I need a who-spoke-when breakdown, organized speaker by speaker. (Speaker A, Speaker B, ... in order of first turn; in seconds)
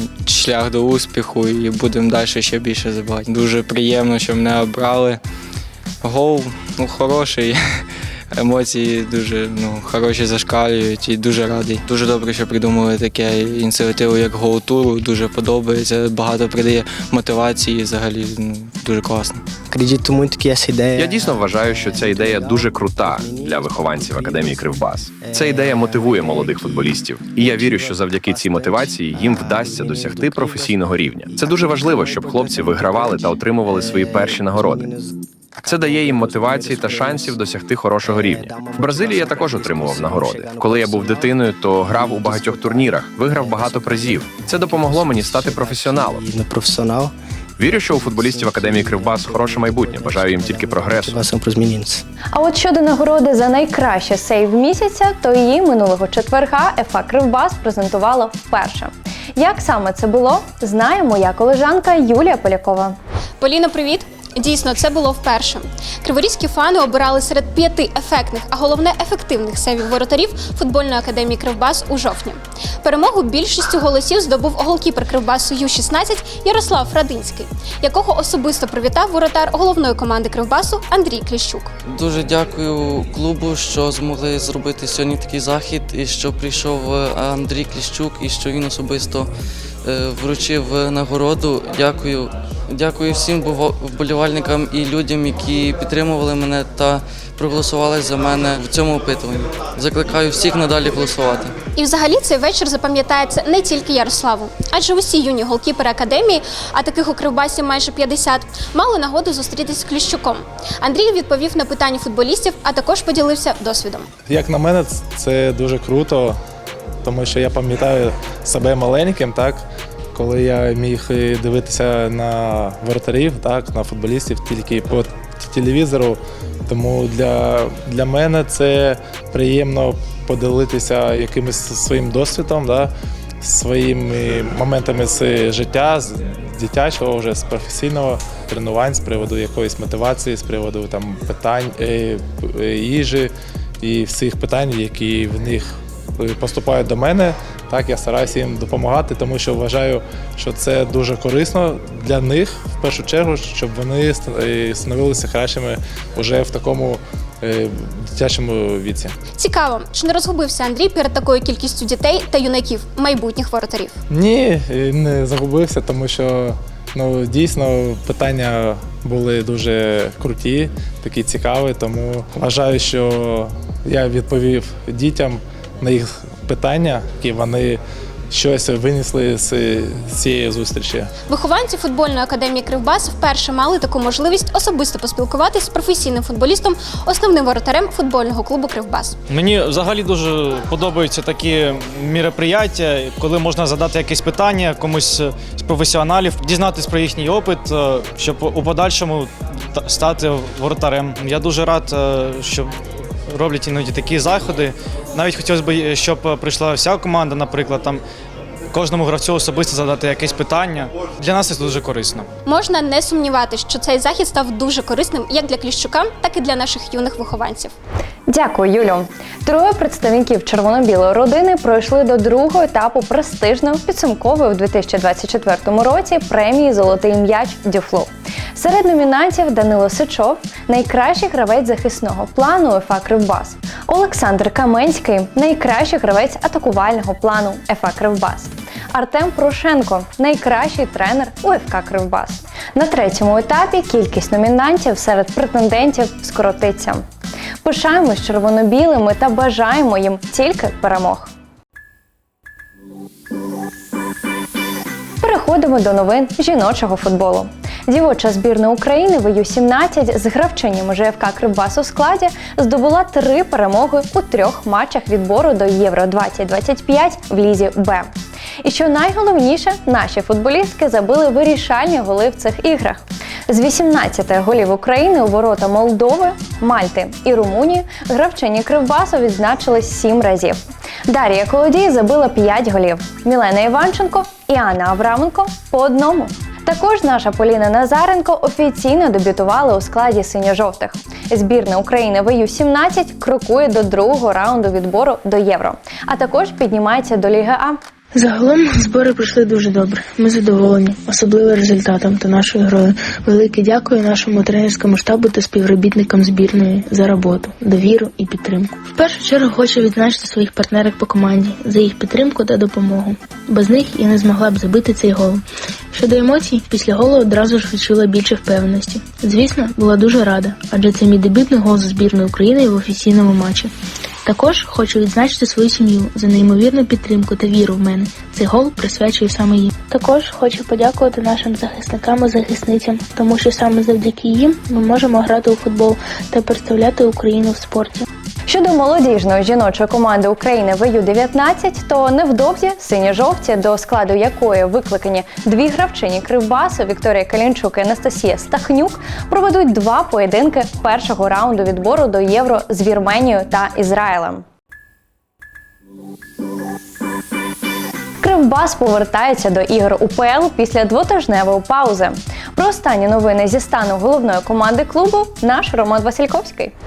Speaker A: 0.2-5.2, 6.0-7.6, 8.4-19.4
Speaker B: 19.6-21.4, 22.3-22.7, 32.6-32.9, 39.3-41.0, 46.3-47.1, 47.9-52.0
Speaker C: 20.9-34.9, 35.6-46.3, 47.6-51.2
Speaker D: 52.3-63.0, 218.3-247.0, 247.6-251.3, 255.2-268.1, 268.6-297.8, 338.5-354.4, 358.2-366.7
Speaker E: 63.4-81.7, 101.7-114.1, 159.4-163.9, 181.3-189.2, 212.4-217.7
Speaker F: 81.8-89.3, 89.8-101.5
Speaker G: 114.3-116.4, 117.0-159.1, 164.1-177.8, 178.3-181.1
Speaker H: 189.3-202.7, 203.3-208.0, 208.7-212.3
Speaker I: 298.1-323.7, 324.2-338.0